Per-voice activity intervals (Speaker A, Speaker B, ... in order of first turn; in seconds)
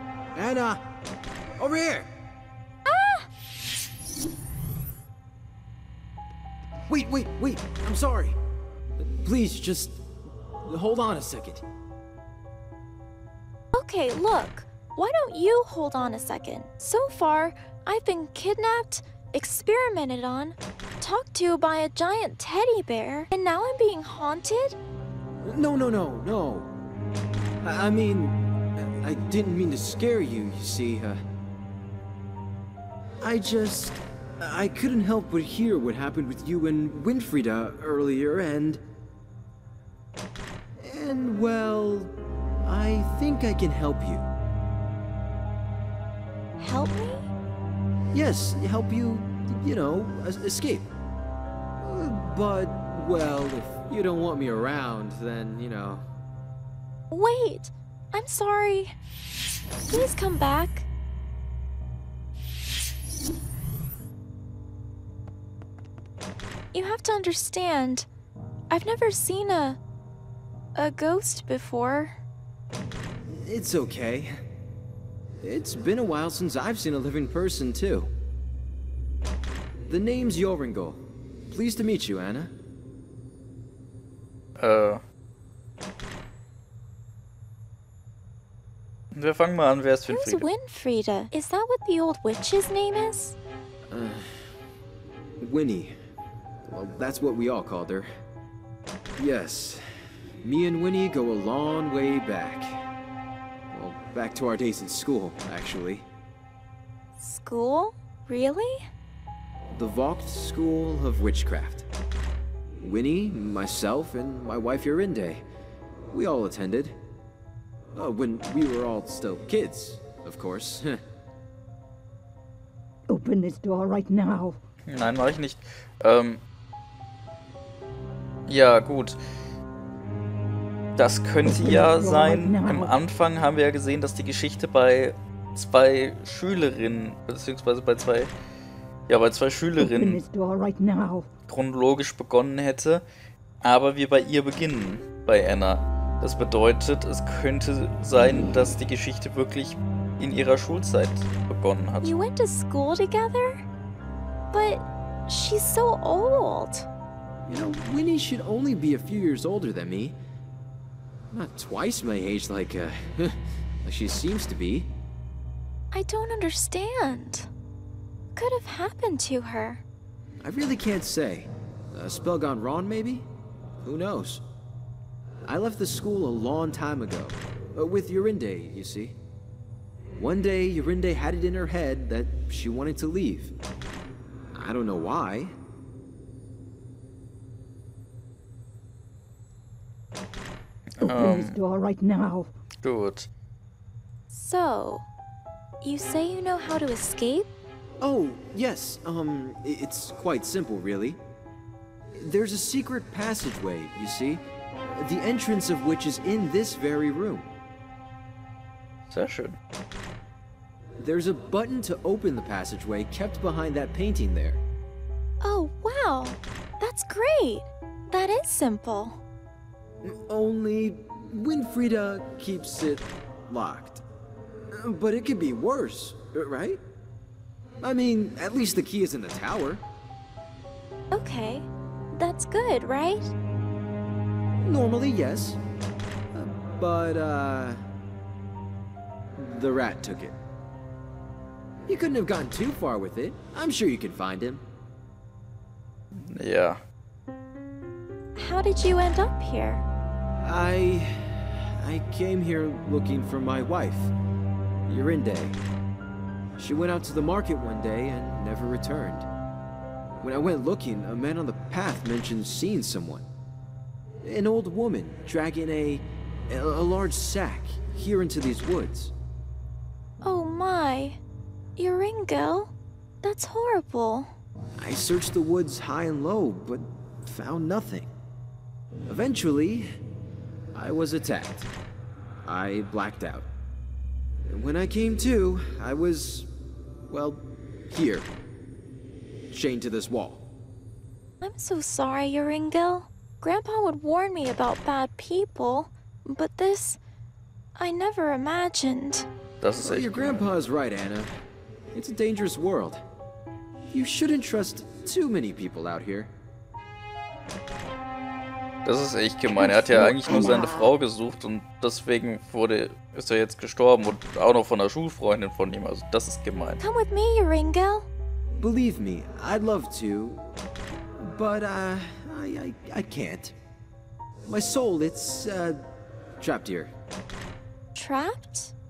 Speaker A: 0.3-0.8, 1.6-2.1, 6.9-8.4, 9.0-10.0, 10.6-11.6, 25.4-26.7, 27.6-31.2, 33.2-38.8, 40.8-42.1, 42.6-44.3, 48.1-50.9, 51.8-56.0, 73.4-74.3, 75.4-78.1, 79.9-82.5, 93.9-94.4, 95.4-95.9, 96.7-98.1, 99.2-99.8, 100.4-102.8, 103.7-106.0, 109.7-111.9, 112.8-115.4, 116.1-117.0, 117.9-121.0, 157.5-160.2, 161.3-164.9, 170.4-173.3, 173.8-174.4, 175.4-179.2, 180.2-183.5, 184.5-185.5, 198.0-201.2, 202.2-204.4, 205.0-207.5, 211.0-214.6, 220.0-224.0, 224.7-226.8, 227.8-229.8, 234.6-235.6, 236.3-237.8, 239.4-240.3, 241.9-244.6, 250.4-254.1, 254.9-255.6, 256.6-259.3, 260.2-263.3, 264.2-269.1, 274.8-278.1, 279.1-279.9, 280.7-281.7, 282.4-283.5, 284.5-286.5, 287.1-288.3, 289.5-290.4, 299.8-301.3, 301.9-303.0, 303.9-306.3, 318.6-320.4, 321.3-323.5, 324.4-325.8, 326.4-326.9
Speaker B: 2.9-3.3, 13.7-24.8, 46.6-47.3, 57.1-59.0, 59.9-60.9, 66.7-68.1, 68.7-69.8, 70.7-72.2, 90.1-93.3, 107.2-108.8, 152.0-153.6, 154.5-156.9, 165.9-167.5, 168.3-169.8, 194.3-195.1, 195.8-197.5, 215.4-219.2, 231.1-233.3, 248.3-249.8, 270.2-271.2, 271.8-274.3, 291.4-297.0, 297.8-299.3, 316.8-318.1, 327.9-328.7
Speaker C: 84.6-85.0, 89.1-90.5, 124.9-126.4, 128.5-129.2, 130.9-138.3, 139.1-140.2, 141.5-143.0, 143.6-152.1, 190.9-191.6, 192.8-193.3, 209.1-209.6, 246.1-246.8, 299.6-300.5, 308.8-316.8
Speaker D: 123.1-124.6, 131.4-132.9, 139.8-141.3, 191.0-192.5, 309.5-310.9